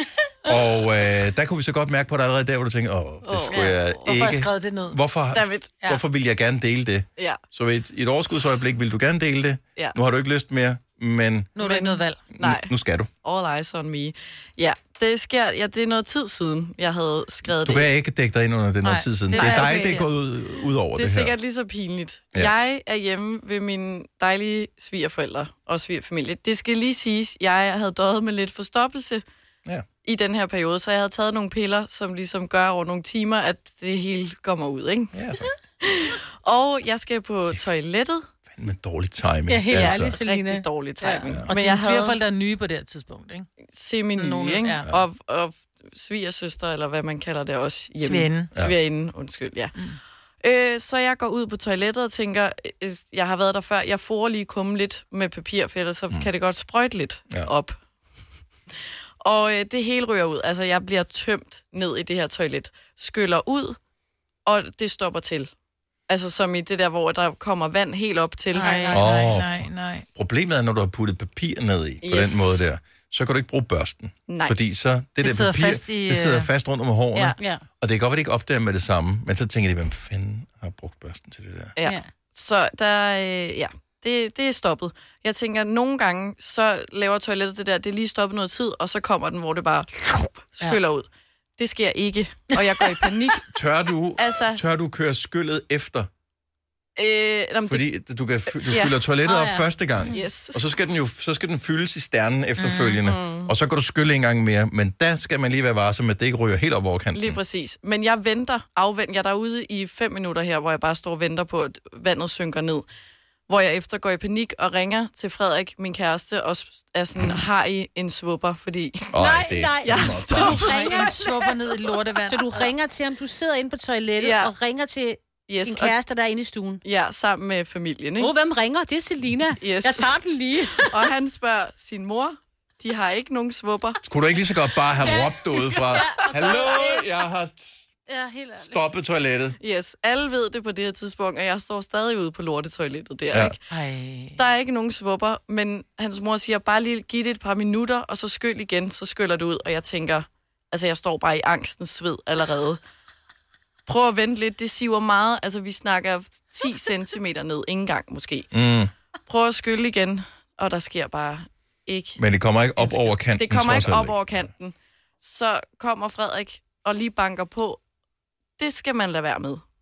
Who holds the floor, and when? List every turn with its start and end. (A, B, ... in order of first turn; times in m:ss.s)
0:00.4-0:11.5 A
0:03.2-0:04.3 B
0:03.5-0:05.0 C
0:05.3-0:05.7 B
0:11.6-0:12.2 C
0:11.6-0:12.7 B
0:12.3-0:13.1 A
0:13.2-0:17.9 B
0:17.5-0:21.3 A
0:18.8-0:20.1 C
0:19.3-0:20.0 B
0:21.0-0:29.2 B
0:30.0-0:35.1 B
0:35.1-0:35.5 A
0:35.8-0:38.3 B
0:38.6-0:40.2 A
0:39.5-0:43.5 C
0:39.7-0:40.0 D
0:39.7-0:42.2 B
0:41.2-0:41.5 A
0:43.7-0:49.8 B
0:44.2-0:44.9 C
0:48.0-0:48.5 C
0:50.4-0:57.8 B
0:59.2-1:03.8 B
1:04.4-1:05.5 B
1:06.1-1:09.0 B
1:08.5-1:10.1 C
1:08.6-1:09.2 D
1:08.9-1:21.8 A
1:12.0-1:12.6 B
1:14.3-1:14.6 B
1:15.2-1:16.5 C
1:17.4-1:17.6 D
1:21.8-1:31.1 B
1:21.8-1:22.1 D
1:31.6-1:33.5 B
1:32.5-1:33.0 C
1:33.5-1:36.1 A
1:34.2-1:34.6 B
1:37.0-1:37.9 B
1:37.7-1:47.4 A
1:38.5-1:39.0 B
1:39.3-1:39.7 D
1:40.0-1:40.6 B
1:42.6-1:43.0 C
1:43.0-1:43.5 B
1:47.1-1:52.9 B
1:53.5-1:59.1 B
1:59.1-2:00.8 A
1:59.2-2:01.6 D
1:59.8-2:01.1 B
2:00.3-2:02.6 C
2:02.2-2:06.8 D
2:04.2-2:04.5 B
2:05.5-2:06.0 B
2:06.8-2:08.3 B
2:08.2-2:11.1 D
2:09.6-2:14.0 B
2:14.0-2:17.8 A
2:15.0-2:17.1 D
2:18.1-2:18.8 D
2:18.6-2:19.6 A
2:19.6-2:23.6 B
2:23.7-2:24.4 C
2:24.4-2:32.8 B
2:33.9-2:38.5 B
2:38.5-2:38.9 A
2:39.3-2:42.2 B
2:42.2-2:44.5 A
2:42.8-2:47.8 B
2:48.6-2:49.6 B